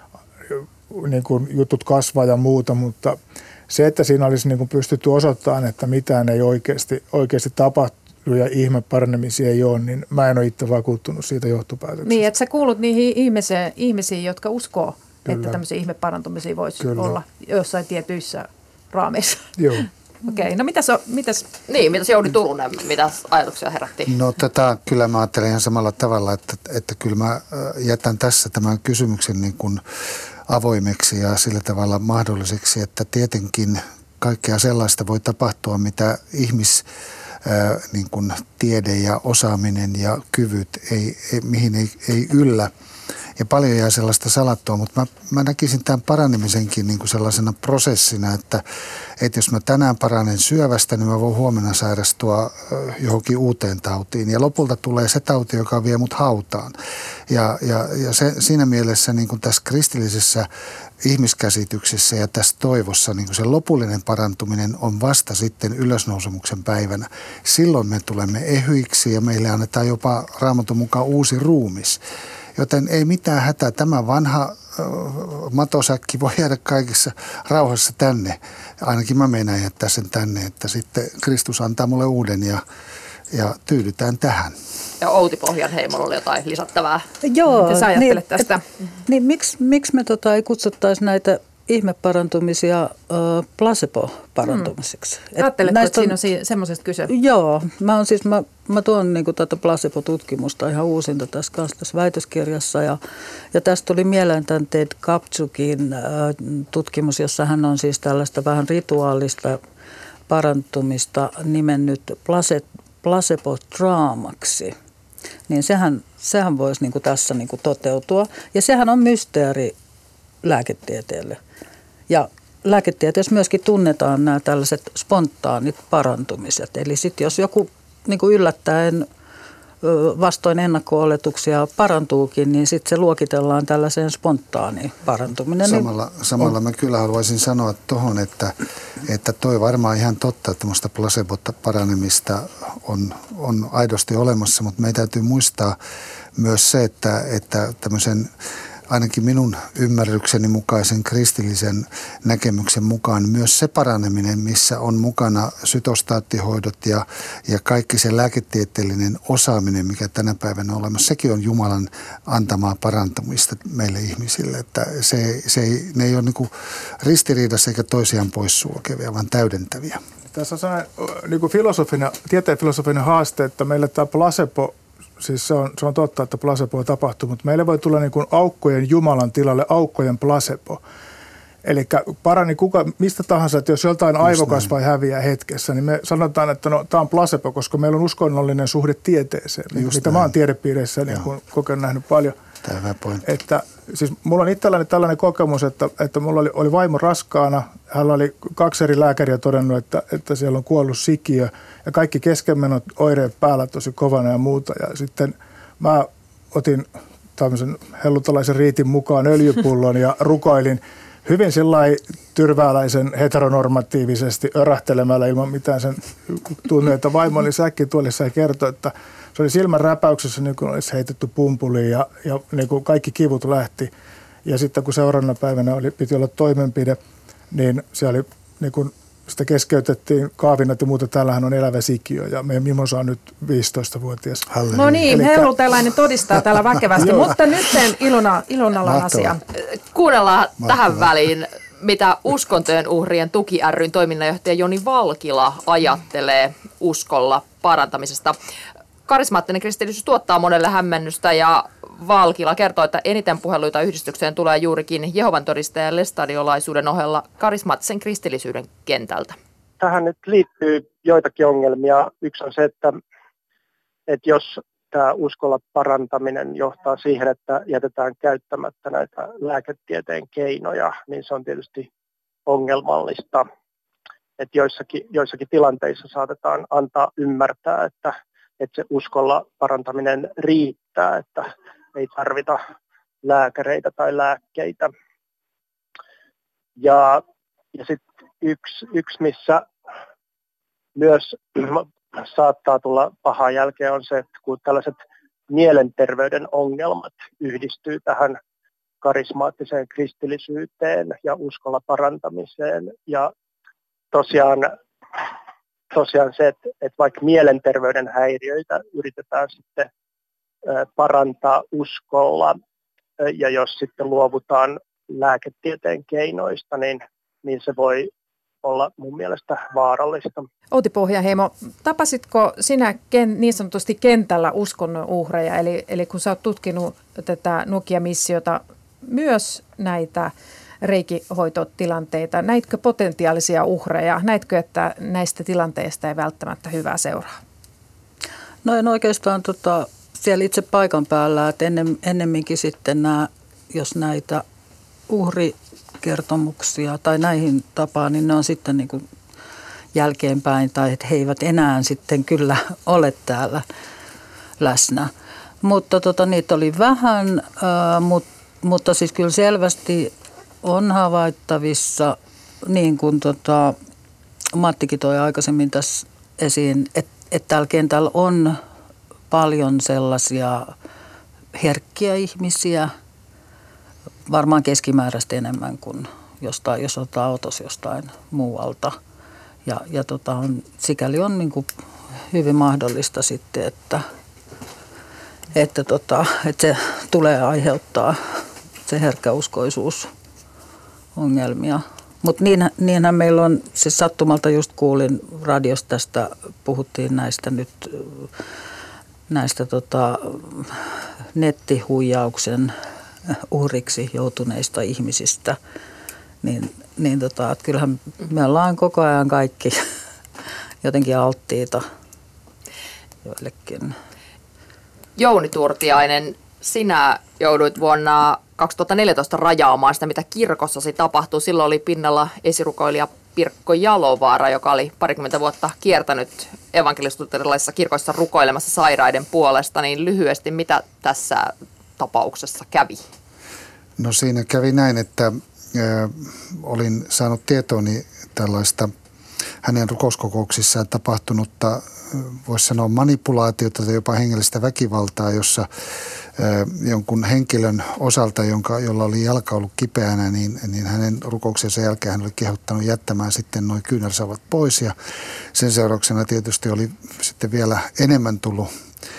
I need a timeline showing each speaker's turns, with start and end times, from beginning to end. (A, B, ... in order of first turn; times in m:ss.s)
0:00.5-0:03.2 A
0:03.7-0:12.3 A
0:12.0-0:21.5 B
0:15.3-0:15.6 A
0:16.8-0:17.1 A
0:19.6-0:19.9 A
0:21.7-0:24.1 C
0:24.1-0:29.8 D
0:30.5-0:36.8 D
0:37.4-0:42.7 D
0:43.4-0:48.6 D
0:49.2-0:56.7 D
0:57.3-1:00.5 D
1:01.0-1:12.0 D
1:12.6-1:22.6 D
1:23.3-1:24.6 D
1:25.0-1:27.1 C
1:27.2-1:28.5 E
1:27.5-1:28.6 B
1:29.1-1:36.1 E
1:34.4-1:34.7 B
1:35.4-1:37.1 B
1:37.1-1:43.0 E
1:43.5-1:49.6 E
1:50.3-1:54.7 E
1:55.5-1:59.7 E
2:00.4-2:01.4 E
2:02.1-2:09.0 E
2:09.8-2:15.9 E
2:15.6-2:25.8 D
2:26.4-2:28.3 D
2:28.9-2:50.0 D
2:50.3-3:00.8 A
3:01.6-3:12.4 A
3:04.2-3:04.7 D
3:09.7-3:10.3 D
3:12.6-3:13.2 D
3:13.2-3:43.9 A
3:44.4-3:47.0 A
3:47.5-3:55.5 A
3:54.7-3:59.4 B
3:57.0-3:57.3 A
3:58.9-3:59.3 D
3:59.6-4:08.4 C
4:09.0-4:19.4 C
4:19.8-4:23.0 F
4:24.1-4:31.9 F
4:32.5-4:33.4 F
4:34.4-4:42.6 F
4:43.2-4:44.9 F
4:46.8-4:47.2 F
4:47.7-4:49.7 F
4:51.0-4:58.4 F
4:59.0-5:03.3 F
5:04.1-5:05.3 F
5:05.9-5:09.9 F
5:10.6-5:12.6 F
5:13.2-5:18.1 F
5:18.6-5:20.4 F
5:20.7-5:37.4 B
5:38.6-5:44.4 E
5:45.1-5:49.0 E
5:49.9-5:53.6 E
5:54.6-5:55.1 E
5:55.6-6:00.1 E
6:00.6-6:03.8 E
6:04.5-6:08.6 E
6:09.3-6:10.7 E
6:11.6-6:12.9 E
6:14.3-6:19.0 E
6:19.6-6:21.7 E
6:22.3-6:24.0 E
6:25.5-6:28.2 E
6:28.8-6:30.1 E
6:31.2-6:38.3 E
6:39.3-6:40.8 E
6:41.3-6:42.7 E
6:43.3-6:45.6 E
6:46.4-6:49.8 E
6:50.8-6:51.8 E
6:53.2-6:53.9 E
6:55.2-7:13.0 C
7:14.0-7:18.9 D
7:19.6-7:25.7 D
7:26.4-7:34.9 D
7:35.5-7:38.7 D